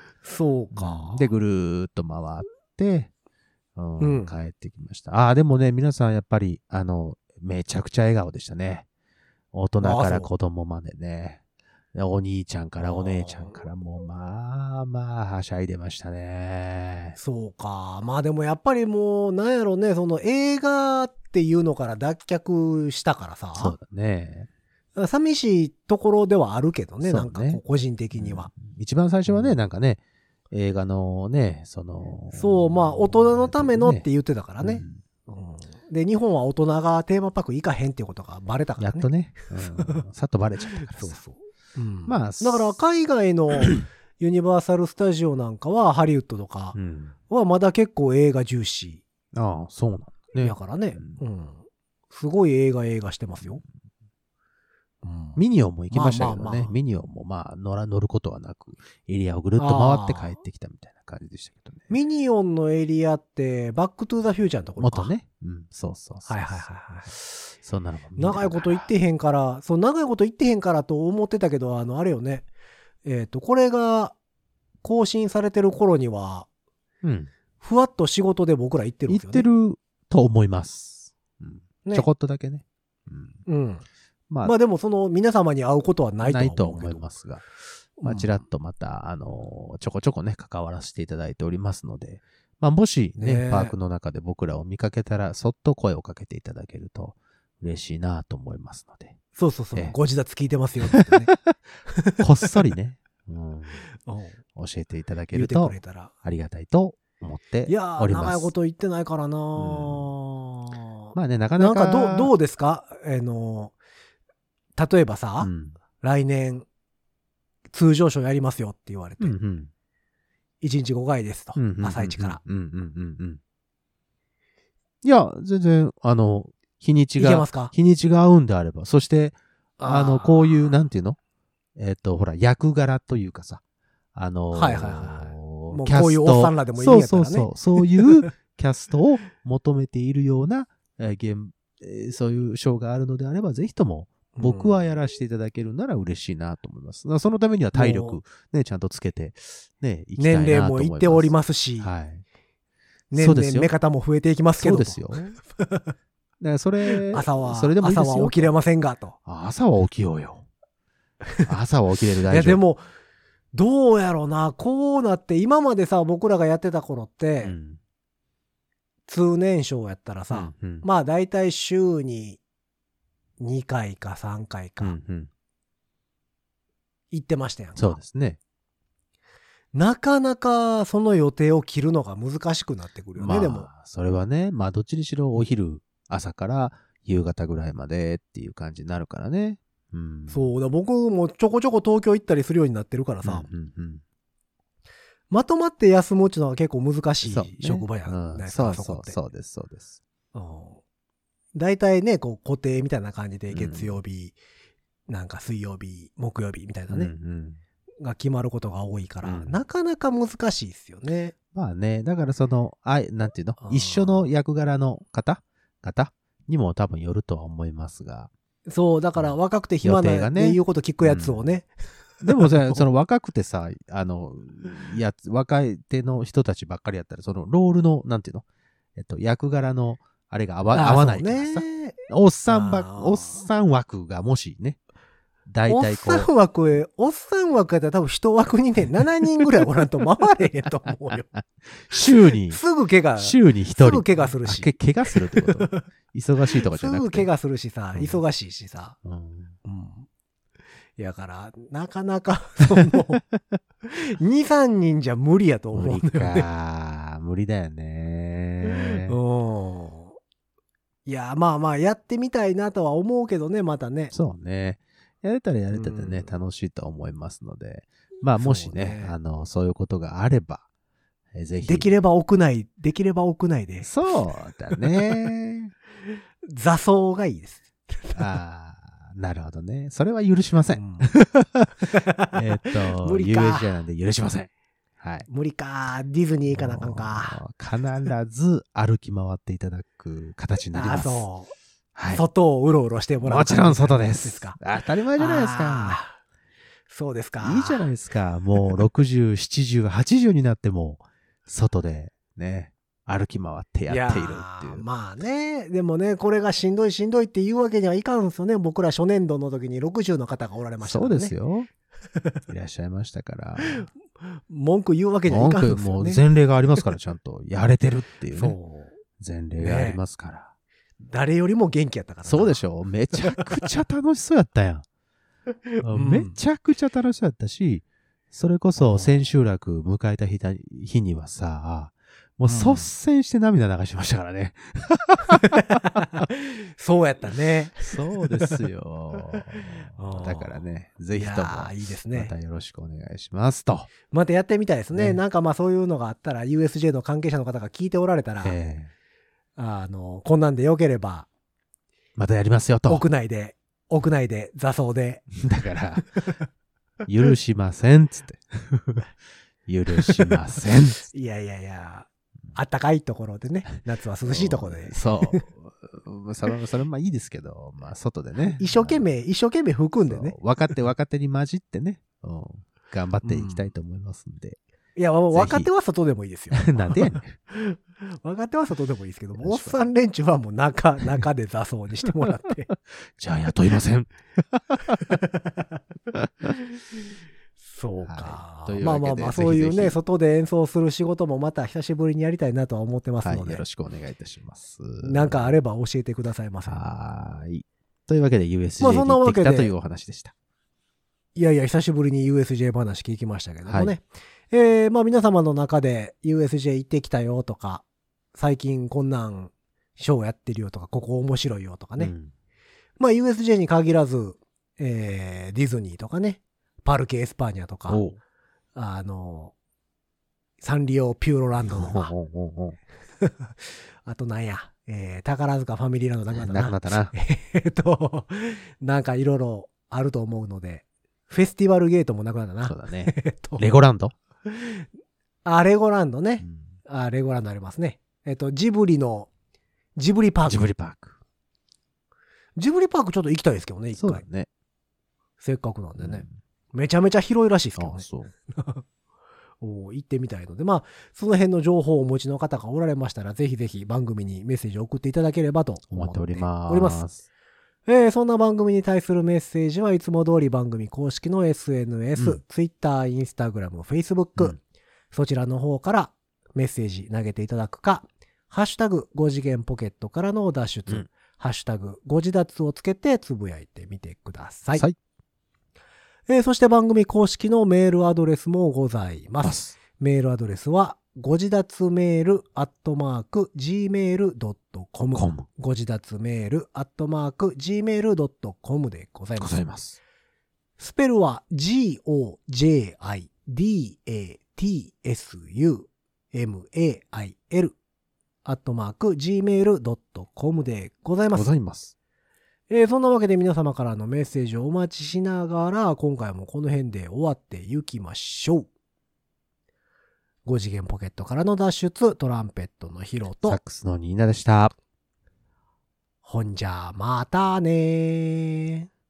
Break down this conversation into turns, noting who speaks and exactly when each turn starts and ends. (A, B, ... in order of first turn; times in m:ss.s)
0:00.2-0:01.3 A
0:00.7-0:03.1 B
0:03.8-0:08.8 B
0:04.0-0:04.3 A
0:09.5-0:11.4 B
0:09.8-0:10.3 A
0:11.9-0:17.2 B
0:12.8-0:13.5 A
0:17.2-0:23.8 A
0:23.6-0:24.5 B
0:25.0-0:28.5 A
0:27.0-0:27.6 B
0:28.1-0:34.0 B
0:29.2-0:29.6 A
0:32.3-0:39.1 A
0:34.6-0:35.0 B
0:38.8-0:41.2 B
0:39.6-0:40.0 A
0:40.9-0:46.8 A
0:42.0-0:42.8 B
0:46.7-0:47.2 B
0:47.3-0:49.0 A
0:49.3-0:51.2 B
0:50.4-0:53.6 A
0:55.0-0:55.4 A
0:55.4-1:01.9 B
0:55.9-0:56.8 A
0:59.6-1:00.3 A
1:01.9-1:05.1 A
1:04.8-1:08.9 B
1:06.3-1:07.1 A
1:08.2-1:12.4 A
1:13.0-1:14.2 A
1:14.8-1:16.5 A
1:17.0-1:17.3 B
1:17.6-1:19.5 A
1:19.1-1:23.4 B
1:23.5-1:23.8 A
1:24.4-1:27.0 A
1:26.2-1:27.4 B
1:28.0-1:28.3 A
1:28.0-1:39.2 B
1:33.2-1:33.7 A
1:39.3-1:41.3 A
1:40.9-1:41.5 B
1:41.9-1:42.2 A
1:42.2-1:43.8 B
1:44.0-1:44.4 A
1:44.5-1:48.5 B
1:45.3-1:46.1 A
1:47.6-1:53.8 A
1:49.6-1:50.1 B
1:51.1-1:52.3 B
1:54.8-1:56.6 A
1:55.4-1:55.8 B
1:57.7-1:59.4 A
1:59.2-1:59.7 B
2:00.6-2:02.4 A
2:01.5-2:03.4 B
2:05.0-2:11.2 B
2:07.2-2:07.7 A
2:09.8-2:10.5 A
2:11.8-2:13.6 B
2:14.1-2:32.2 B
2:14.5-2:18.3 A
2:24.3-2:24.8 A
2:27.7-2:28.2 A
2:30.2-2:31.9 A
2:33.1-2:35.9 A
2:33.1-2:33.7 B
2:34.6-2:35.4 B
2:36.4-2:38.5 B
2:36.9-2:39.2 A
2:39.2-2:40.5 B
2:41.4-2:42.6 B
2:42.3-2:42.8 A
2:43.5-2:47.6 A
2:47.4-2:47.8 B
2:49.1-2:52.4 A
2:50.3-2:50.8 B
2:53.4-2:55.0 A
2:54.8-2:55.3 B
2:57.1-2:58.0 A
2:57.8-2:58.4 B
2:59.7-3:03.7 A
3:03.2-3:10.5 B
3:10.3-3:13.5 A
3:13.2-3:14.0 B
3:15.3-3:19.2 A
3:17.2-3:20.0 B
3:20.3-3:20.8 A
3:21.5-3:24.4 A
3:23.5-3:24.0 B
3:25.1-3:27.1 A
3:26.9-3:27.6 B
3:28.0-3:31.3 A
3:29.2-3:29.6 B
3:31.5-3:38.3 B
3:33.6-3:34.2 A
3:38.7-3:41.7 A
3:39.2-3:41.4 B
3:42.2-3:54.8 B
3:42.2-3:42.8 A
3:50.7-3:52.0 A
3:52.5-3:53.4 A
3:55.5-3:56.3 B
3:55.7-4:01.3 A
4:01.3-4:02.6 B
4:02.5-4:04.7 A
4:03.2-4:07.3 B
4:05.3-4:05.8 A
4:06.7-4:09.0 A
4:07.9-4:08.2 B
4:09.0-4:09.6 B
4:09.6-4:10.1 A
4:11.0-4:13.2 A
4:13.8-4:16.5 A
4:15.7-4:19.2 B
4:18.6-4:20.2 A
4:21.0-4:24.1 A
4:24.1-4:30.7 B
4:25.7-4:26.3 A
4:28.4-4:29.1 A
4:31.3-4:31.9 B
4:31.6-4:33.9 A
4:33.8-4:35.7 B
4:34.7-4:35.3 A
4:36.5-4:38.3 A
4:38.1-4:45.3 B
4:40.7-4:41.1 A
4:41.9-4:43.7 A
4:45.3-4:47.4 A
4:46.5-4:51.2 B
4:50.7-4:51.5 A
4:51.9-4:52.2 B
4:52.1-4:54.6 A
4:53.2-4:56.0 B
4:55.2-4:56.2 A
4:56.9-4:57.9 A
4:57.4-5:04.8 B
5:03.9-5:11.3 A
5:10.8-5:11.7 B
5:12.5-5:13.8 B
5:13.6-5:13.9 A
5:14.5-5:16.2 A
5:15.3-5:18.6 B
5:18.3-5:19.0 A
5:19.2-5:20.5 B
5:19.6-5:20.0 A
5:21.1-5:22.6 A
5:22.2-5:24.8 B
5:23.2-5:23.6 A
5:25.8-5:26.4 A
5:25.8-5:36.2 B
5:28.8-5:29.3 A
5:32.4-5:32.9 A
5:35.4-5:38.6 A
5:37.8-5:43.9 B
5:39.9-5:40.6 A
5:41.1-5:42.3 A
5:44.1-5:48.5 A
5:44.9-5:45.2 B
5:48.4-5:48.9 B
5:49.6-5:51.3 A
5:52.2-5:53.0 B
5:52.9-5:55.4 A
5:55.4-5:56.2 B
5:56.0-5:56.4 A
5:57.1-5:59.1 B
5:59.7-6:01.1 B
6:00.0-6:00.3 A
6:01.1-6:05.4 A
6:04.3-6:09.0 B
6:08.5-6:10.4 A
6:10.0-6:14.6 B
6:13.2-6:13.6 A
6:15.0-6:22.7 A
6:15.3-6:15.7 B
6:16.5-6:17.4 B
6:19.4-6:19.8 B
6:23.1-6:25.2 B
6:26.1-6:26.5 B
6:27.6-6:33.6 A
6:28.0-6:30.0 B
6:33.2-6:35.6 B
6:35.0-6:36.8 A
6:36.7-6:40.3 B
6:38.8-6:39.7 A
6:41.3-6:52.1 A
6:43.6-6:44.0 B
6:52.0-6:52.3 B
6:53.0-6:58.0 A
6:57.9-6:58.2 B
6:58.7-6:59.5 A
7:00.6-7:02.1 A
7:01.6-7:02.8 B
7:03.2-7:13.7 A
7:06.3-7:07.1 B
7:12.6-7:14.1 B
7:14.5-7:14.8 A
7:15.4-7:19.3 A
7:16.4-7:16.7 B
7:20.0-7:20.7 A
7:20.5-7:21.2 B
7:22.6-7:24.2 A
7:23.9-7:24.5 B
7:25.4-7:28.8 A
7:26.0-7:26.3 B
7:27.8-7:28.3 B
7:29.6-7:37.0 A
7:35.9-7:37.2 B
7:37.8-7:44.6 A
7:45.1-7:54.8 A
7:56.3-8:09.6 A
7:59.4-7:59.8 B
8:05.1-8:05.4 B
8:09.4-8:10.0 B
8:10.8-8:17.8 A
8:18.4-8:21.5 A
8:21.3-8:21.9 B
8:22.7-8:28.7 A
8:30.4-8:33.6 A
8:33.4-8:34.7 B
8:36.2-8:38.9 A